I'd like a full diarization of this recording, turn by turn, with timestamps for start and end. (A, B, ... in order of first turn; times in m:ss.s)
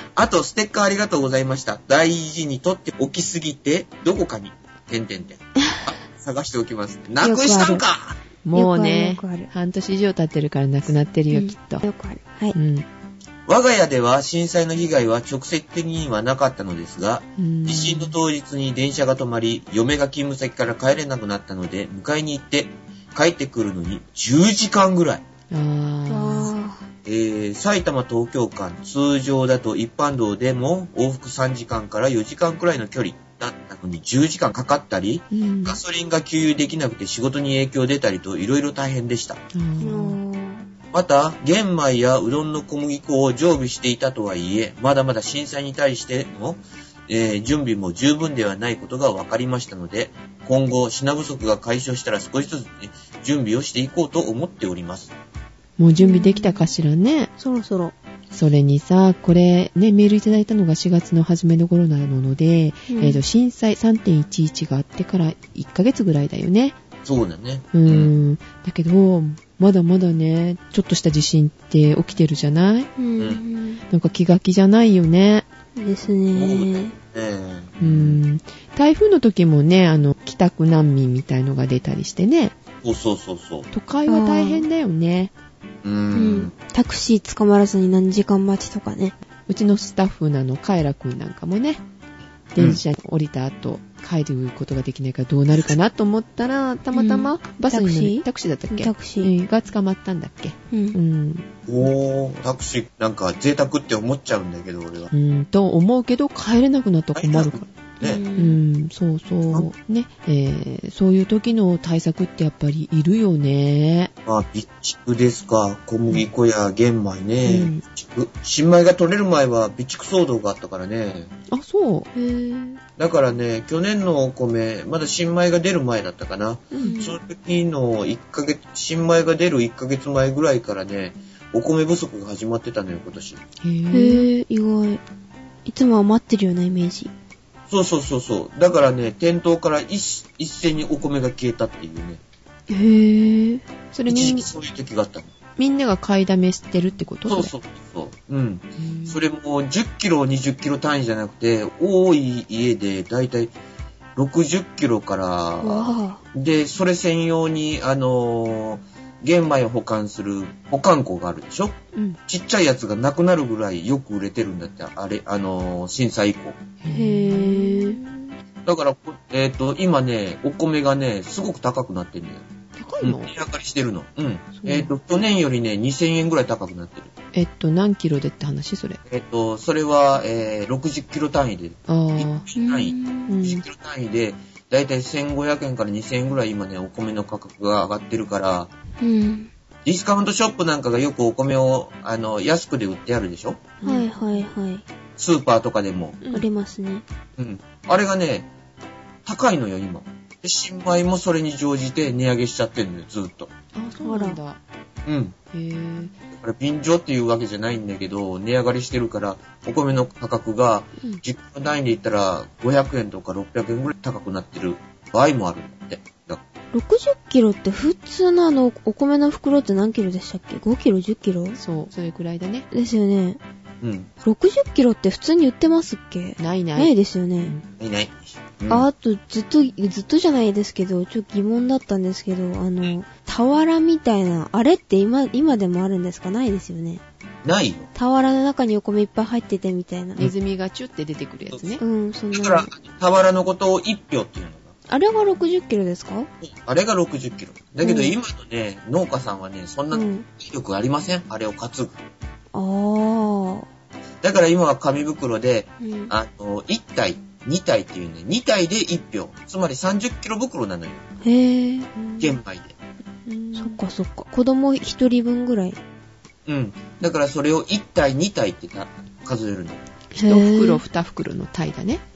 0:00.2-0:08.2 A
0:07.2-0:07.8 B
0:08.4-0:11.8 C
0:08.5-0:09.5 B
0:11.3-0:12.6 B
0:12.5-0:12.8 C
0:13.5-0:25.2 A
0:17.4-0:18.1 C
0:25.5-0:26.5 C
0:26.1-0:26.8 B
0:27.0-0:39.4 A
0:35.3-0:35.8 C
0:39.5-0:40.2 C
0:39.8-0:40.6 B
0:40.9-0:55.1 A
0:55.8-0:57.3 C
0:56.0-0:56.6 B
0:57.4-0:57.9 B
0:58.3-1:06.8 C
1:02.9-1:03.2 B
1:07.0-1:08.1 A
1:07.7-1:12.9 C
1:13.0-1:13.8 B
1:13.9-1:15.4 C
1:15.8-1:16.9 B
1:16.3-1:18.2 A
1:17.8-1:22.5 C
1:22.8-1:23.7 A
1:23.7-1:25.3 C
1:24.1-1:24.7 B
1:25.8-1:26.5 A
1:26.1-1:29.1 B
1:29.5-1:31.8 C
1:32.5-1:41.4 C
1:36.9-1:39.3 B
1:40.7-1:41.0 B
1:41.6-1:45.1 A
1:45.1-1:47.7 C
1:47.1-1:48.2 A
1:48.0-1:48.6 B
1:48.4-1:54.1 C
1:54.2-2:01.3 A
1:57.4-1:57.8 C
2:01.5-2:02.1 C
2:02.1-2:02.8 B
2:03.0-2:13.4 A
2:06.7-2:07.0 C
2:06.8-2:07.2 B
2:13.6-2:14.3 C
2:13.9-2:15.0 B
2:15.6-2:17.1 B
2:17.7-2:22.2 A
2:22.7-2:23.6 B
2:23.9-2:24.4 C
2:24.1-2:25.3 A
2:25.6-2:27.5 C
2:27.3-2:33.5 A
2:28.8-2:29.2 C
2:34.2-2:46.6 A
2:35.6-2:36.2 B
2:46.8-2:48.0 C
2:46.9-2:48.2 B
2:48.6-2:52.4 A
2:52.8-2:53.3 C
2:53.0-2:57.1 A
2:54.6-2:54.9 B
2:57.3-2:59.0 C
2:59.1-3:08.7 A
3:01.9-3:02.4 C
3:02.6-3:03.4 B
3:03.3-3:03.6 C
3:09.0-3:09.5 B
3:09.8-3:13.7 A
3:13.8-3:14.1 C
3:13.8-3:14.8 B
3:15.2-3:16.2 A
3:16.3-3:17.0 B
3:17.4-3:18.5 A
3:19.2-3:23.5 A
3:23.7-3:24.6 C
3:24.0-3:24.4 B
3:25.0-3:25.3 A
3:25.5-3:26.1 C
3:26.3-3:36.4 A
3:36.7-3:41.6 B
3:41.6-3:42.7 C
3:42.7-3:43.4 B
3:43.8-3:44.1 A
3:44.2-3:47.5 B
3:46.4-3:46.9 C
3:47.8-3:48.8 A
3:48.7-3:57.0 B
3:57.4-3:57.9 A
3:57.9-4:00.2 B
4:00.2-4:01.8 C
4:01.8-4:02.7 B
4:02.3-4:04.7 A
4:04.9-4:06.3 B
4:06.4-4:12.0 A
4:07.8-4:08.1 B
4:09.9-4:10.2 B
4:12.5-4:13.7 B
4:14.2-4:21.0 A
4:15.8-4:16.1 B
4:21.2-4:21.9 B
4:22.0-4:22.4 C
4:22.2-4:22.7 A
4:23.3-4:23.8 C
4:23.5-4:25.8 B
4:26.4-4:29.8 A
4:30.1-4:32.0 C
4:30.1-4:30.8 B